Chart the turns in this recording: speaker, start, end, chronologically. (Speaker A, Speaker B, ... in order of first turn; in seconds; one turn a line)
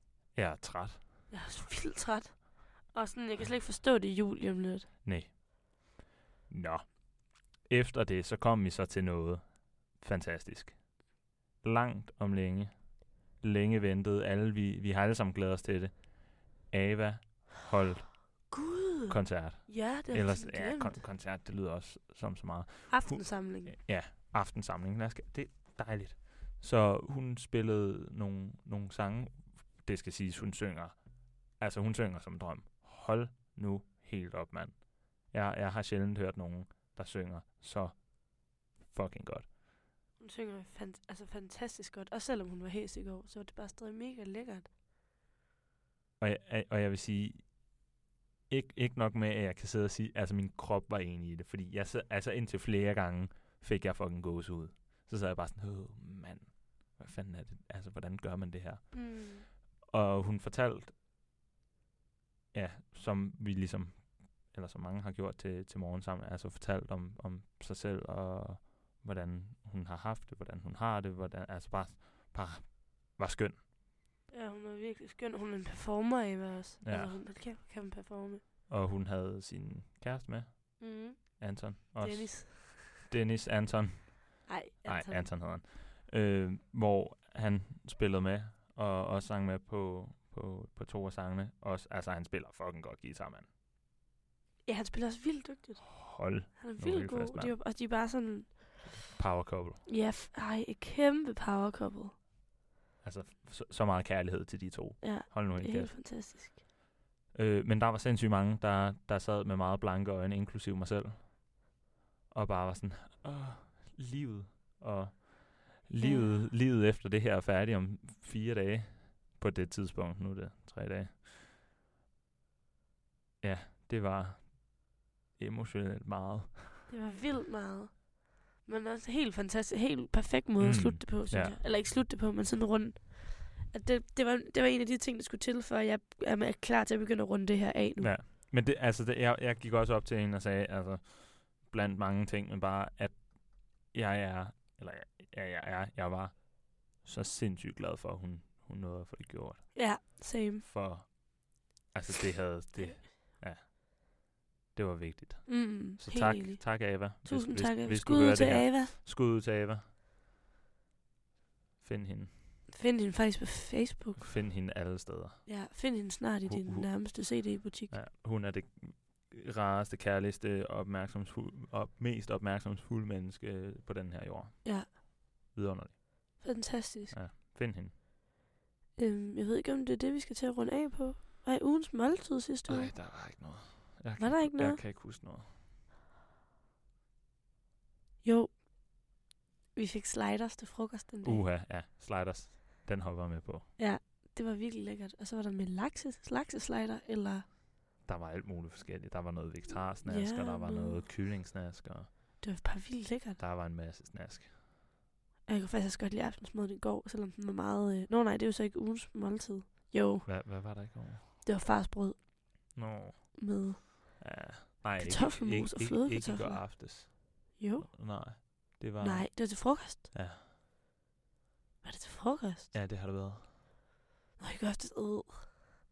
Speaker A: 0.3-1.3
Speaker B: 1.3-4.9
Speaker A: 5.0-5.3
Speaker A: 6.5-10.8
Speaker A: 11.6-12.8
Speaker A: 13.4-18.2
Speaker B: 18.5-21.0
Speaker A: 19.1-30.9
Speaker B: 22.9-23.8
Speaker A: 31.6-39.5
Speaker B: 40.2-44.7
Speaker A: 46.2-47.6
Speaker A: 48.5-60.9
Speaker B: 58.9-59.5
Speaker A: 62.5-73.6
Speaker B: 74.3-78.4
Speaker A: 76.8-77.2
Speaker A: 78.7-93.5
Speaker B: 80.8-83.0
Speaker B: 84.5-85.3
Speaker B: 94.7-99.0
Speaker A: 96.0-97.6
Speaker A: 98.9-99.8
Speaker B: 99.8-102.2
Speaker A: 103.0-106.0
Speaker B: 105.0-106.6
Speaker A: 107.3-111.4
Speaker A: 112.3-121.2
Speaker B: 116.0-116.5
Speaker A: 123.4-124.8
Speaker A: 125.4-126.9
Speaker B: 126.9-138.1
Speaker A: 130.6-131.6
Speaker A: 138.0-150.0
Speaker B: 149.7-150.7
Speaker A: 150.6-153.7
Speaker B: 152.7-153.0
Speaker A: 154.7-159.8
Speaker B: 155.4-158.9
Speaker A: 161.8-162.3
Speaker B: 162.7-164.3
Speaker A: 164.2-165.5
Speaker B: 165.4-167.9
Speaker A: 166.4-176.0
Speaker B: 174.6-174.9
Speaker B: 176.4-177.2
Speaker A: 177.1-177.9
Speaker B: 179.0-182.9
Speaker A: 182.7-185.5
Speaker B: 184.2-184.8
Speaker B: 188.2-188.6
Speaker B: 189.7-191.5
Speaker A: 191.2-193.7
Speaker B: 193.8-197.4
Speaker A: 198.0-202.1
Speaker B: 200.0-201.0
Speaker B: 202.4-203.4
Speaker A: 203.4-204.5
Speaker B: 205.5-210.3
Speaker A: 210.2-211.2
Speaker B: 211.4-212.7
Speaker A: 212.7-220.4
Speaker B: 213.4-214.2
Speaker B: 215.0-216.9
Speaker B: 217.6-220.1
Speaker B: 221.8-222.7
Speaker A: 222.7-223.5
Speaker B: 224.4-225.7